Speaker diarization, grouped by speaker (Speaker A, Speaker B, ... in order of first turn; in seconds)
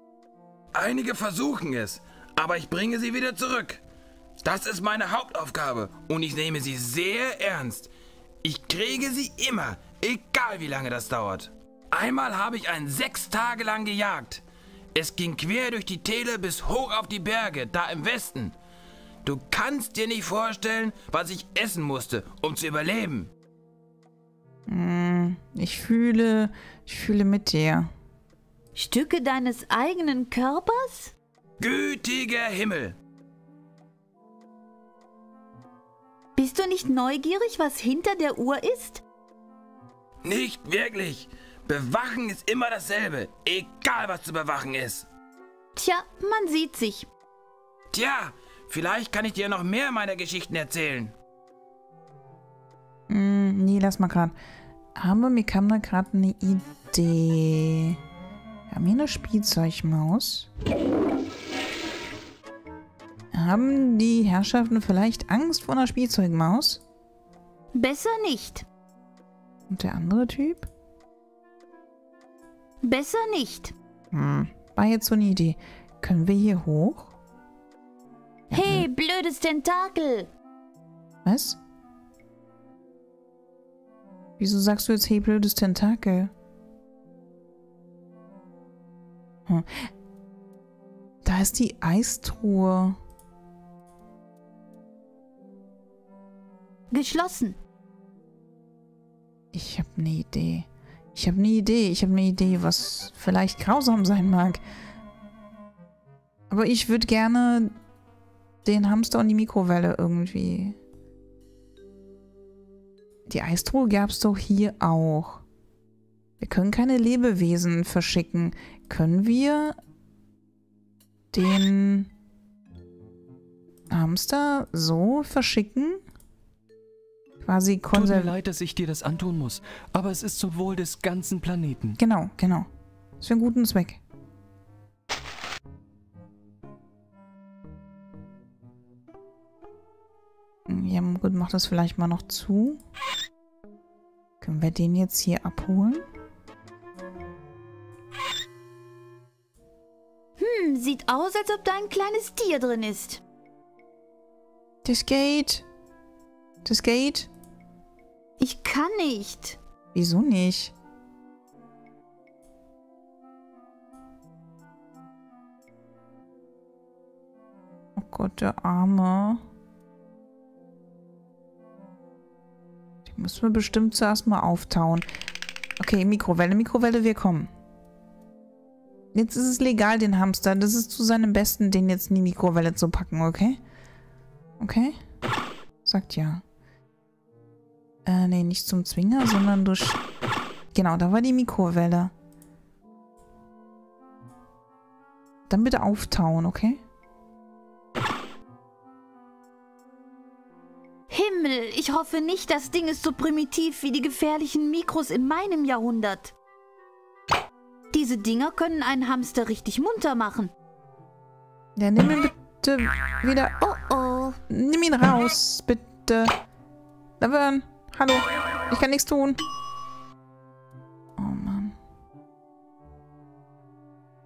Speaker A: 0.7-3.8, 4.4-7.9, 8.4-14.4, 14.9-18.6, 19.2-23.3, 31.6-33.0, 40.2-45.1, 47.9-51.1
Speaker B: 24.7-27.9, 53.1-54.4, 55.0-58.0, 58.7-60.5, 63.3-66.8, 69.7-70.7, 74.1-77.2, 78.5-78.9, 81.2-81.6, 84.4-86.3, 89.5-89.9, 91.2-93.0, 99.5-104.6, 106.5-107.8, 108.6-110.8, 113.3-115.4, 116.4-119.8, 121.3-122.1, 123.9-126.0, 127.4-128.3, 132.0-132.7, 133.2-134.0, 140.7-142.8, 144.4-146.1, 154.8-155.7, 156.7-157.3, 159.9-160.8, 167.9-169.4, 173.1-175.1, 175.8-177.5, 179.1-183.6, 184.6-185.0, 185.8-186.4, 188.1-190.0, 190.7-192.1, 195.5-196.8, 211.8-213.5, 214.5-216.3, 217.2-219.4, 221.2-221.8
Speaker C: 28.8-31.1, 36.4-39.0, 45.8-47.1, 67.7-68.7, 72.8-73.7, 78.5-80.3, 96.9-97.6, 150.4-153.2, 158.4-159.6, 201.1-206.3, 207.9-210.5, 213.6-214.4
Speaker D: 127.9-132.0